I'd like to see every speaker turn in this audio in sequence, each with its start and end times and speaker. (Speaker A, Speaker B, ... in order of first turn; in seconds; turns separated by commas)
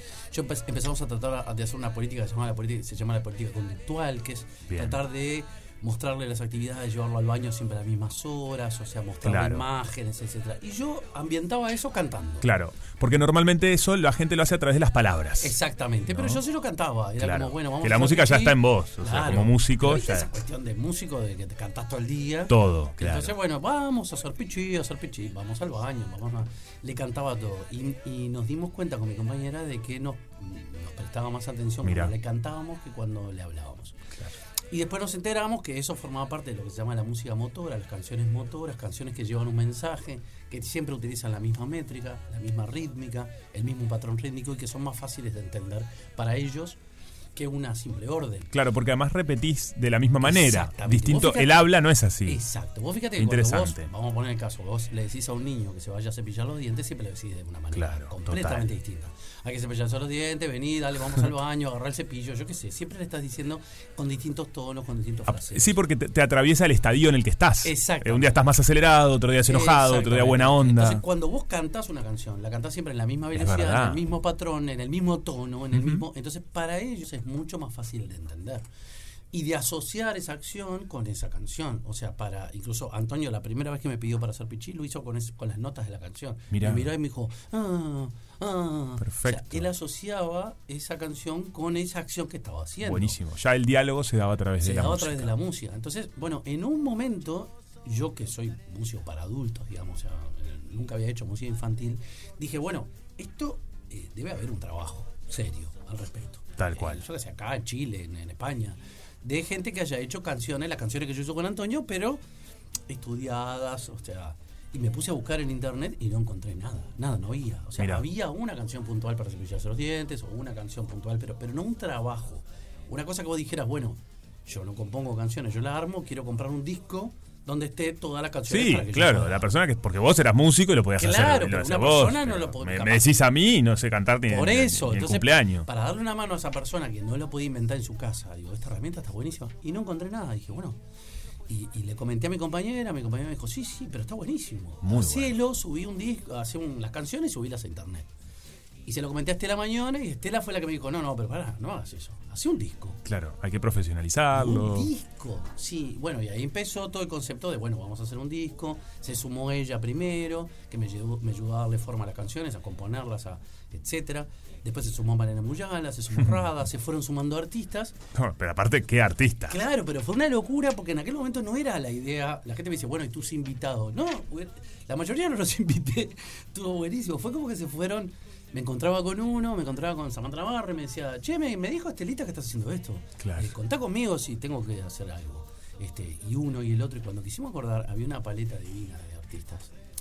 Speaker A: 0.3-12.5, Speaker B: 4.7-5.0, Speaker B: 9.2-9.7, Speaker B: 12.4-15.6, Speaker A: 15.4-34.1, Speaker B: 16.1-16.4, Speaker B: 17.2-20.3, Speaker B: 22.5-23.3, Speaker B: 31.8-32.1, Speaker A: 34.7-46.8, Speaker A: 47.4-48.5, Speaker B: 48.5-52.4, Speaker A: 50.2-51.7, Speaker A: 52.2-65.8, Speaker B: 53.2-53.9, Speaker B: 57.7-58.7, Speaker B: 65.3-71.0, Speaker A: 67.6-68.4, Speaker A: 69.4-78.7, Speaker B: 73.3-74.0, Speaker B: 75.7-76.0, Speaker A: 79.3-93.2, Speaker B: 86.5-86.9, Speaker B: 89.0-89.6, Speaker B: 92.8-95.3, Speaker A: 94.6-112.2, Speaker B: 106.6-107.1, Speaker A: 112.9-129.5, Speaker B: 117.8-118.0, Speaker B: 128.5-135.7, Speaker A: 131.0-133.2, Speaker A: 134.3-140.8, Speaker A: 141.5-148.1, Speaker B: 144.8-145.3, Speaker A: 148.9-153.0, Speaker B: 153.1-154.9, Speaker A: 154.3-167.9, Speaker B: 168.2-169.6, Speaker A: 169.5-189.7, Speaker B: 183.2-183.5